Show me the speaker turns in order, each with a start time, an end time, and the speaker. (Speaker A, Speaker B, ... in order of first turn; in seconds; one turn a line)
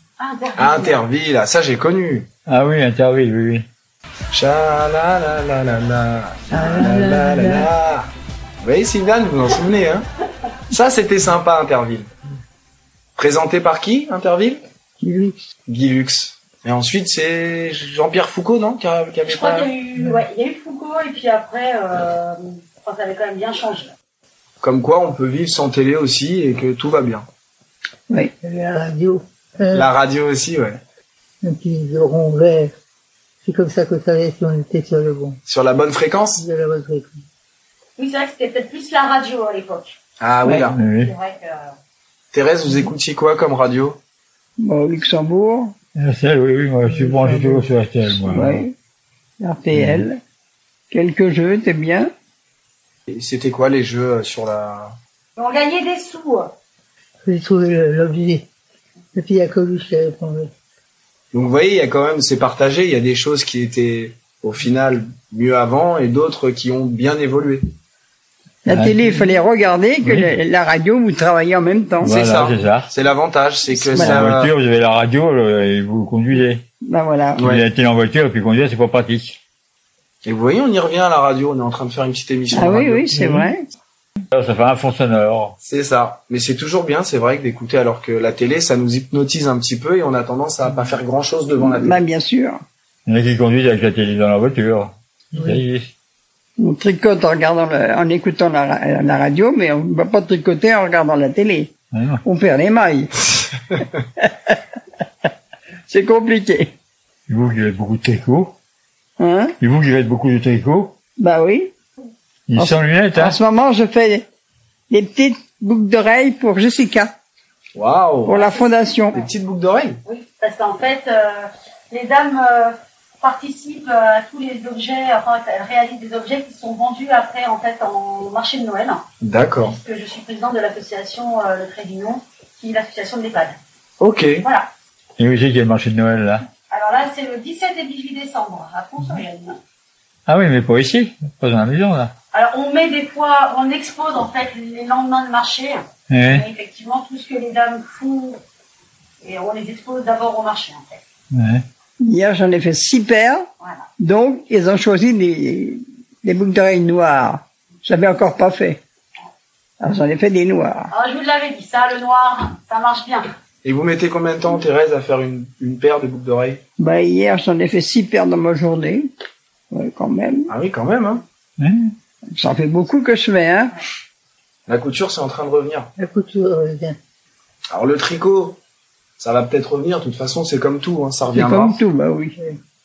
Speaker A: 0.2-1.0
Speaker B: 0.6-2.3
Speaker C: 2.5-3.6
Speaker B: 4.3-8.1
Speaker D: 6.5-7.7
Speaker B: 8.6-10.1
Speaker B: 10.7-12.1
Speaker B: 13.2-14.6
Speaker E: 15.0-15.3
Speaker B: 15.7-19.7
Speaker A: 19.2-23.9
Speaker B: 24.6-27.2
Speaker D: 28.4-29.9
Speaker B: 29.7-30.8
Speaker D: 31.4-32.7
Speaker D: 33.4-35.4
Speaker B: 35.5-36.4
Speaker D: 36.4-37.2
Speaker A: 38.0-40.0
Speaker B: 40.2-40.8
Speaker E: 40.4-40.7
Speaker C: 40.7-41.1
Speaker A: 40.9-41.7
Speaker B: 42.3-44.0
Speaker E: 44.6-45.7
Speaker C: 45.9-48.6
Speaker D: 46.8-48.4
Speaker E: 48.3-48.7
Speaker E: 49.4-50.2
Speaker C: 49.7-50.0
Speaker E: 50.9-52.1
Speaker B: 53.1-54.9
Speaker A: 55.4-56.5
Speaker D: 57.2-58.5
Speaker D: 59.1-60.5
Speaker B: 61.3-67.7
Speaker E: 68.6-72.1
Speaker C: 68.7-69.3
Speaker C: 70.0-70.3
Speaker C: 72.0-72.9
Speaker B: 72.0-74.5
Speaker E: 73.9-74.3
Speaker C: 73.9-76.6
Speaker E: 76.8-77.4
Speaker B: 77.4-77.6
Speaker C: 77.4-79.4
Speaker B: 80.2-83.1
Speaker E: 82.5-83.7
Speaker C: 83.1-83.5
Speaker C: 84.3-85.5
Speaker B: 85.6-92.0
Speaker E: 91.6-92.6
Speaker C: 93.0-95.9
Speaker D: 95.3-95.6
Speaker E: 96.6-104.6
Speaker C: 101.9-102.2
Speaker E: 105.9-106.7
Speaker C: 107.3-108.5
Speaker E: 109.2-109.5
Speaker C: 109.6-110.9
Speaker E: 111.2-111.7
Speaker C: 112.5-113.4
Speaker E: 112.5-114.2
Speaker E: 114.9-117.1
Speaker B: 117.7-118.4
Speaker E: 118.3-119.2
Speaker A: 118.3-119.2
Speaker B: 119.1-120.0
Speaker A: 120.0-129.0
Speaker B: 129.2-129.8
Speaker A: 129.6-133.6
Speaker B: 134.0-134.4
Speaker A: 134.4-134.7
Speaker C: 135.2-136.4
Speaker A: 136.7-139.6
Speaker C: 140.3-142.1
Speaker A: 142.3-148.4
Speaker C: 146.1-146.4
Speaker A: 149.2-151.0
Speaker C: 151.3-151.6
Speaker E: 152.0-153.4
Speaker A: 153.6-153.9
Speaker E: 154.0-158.8
Speaker E: 159.8-160.9
Speaker A: 160.9-163.3
Speaker B: 163.6-166.6
Speaker E: 166.8-169.1
Speaker E: 169.7-170.5
Speaker B: 170.5-171.2
Speaker C: 171.6-171.9
Speaker E: 172.3-173.8
Speaker B: 174.7-175.9
Speaker D: 176.0-177.0
Speaker B: 177.7-178.6
Speaker B: 179.2-181.8
Speaker E: 181.3-182.3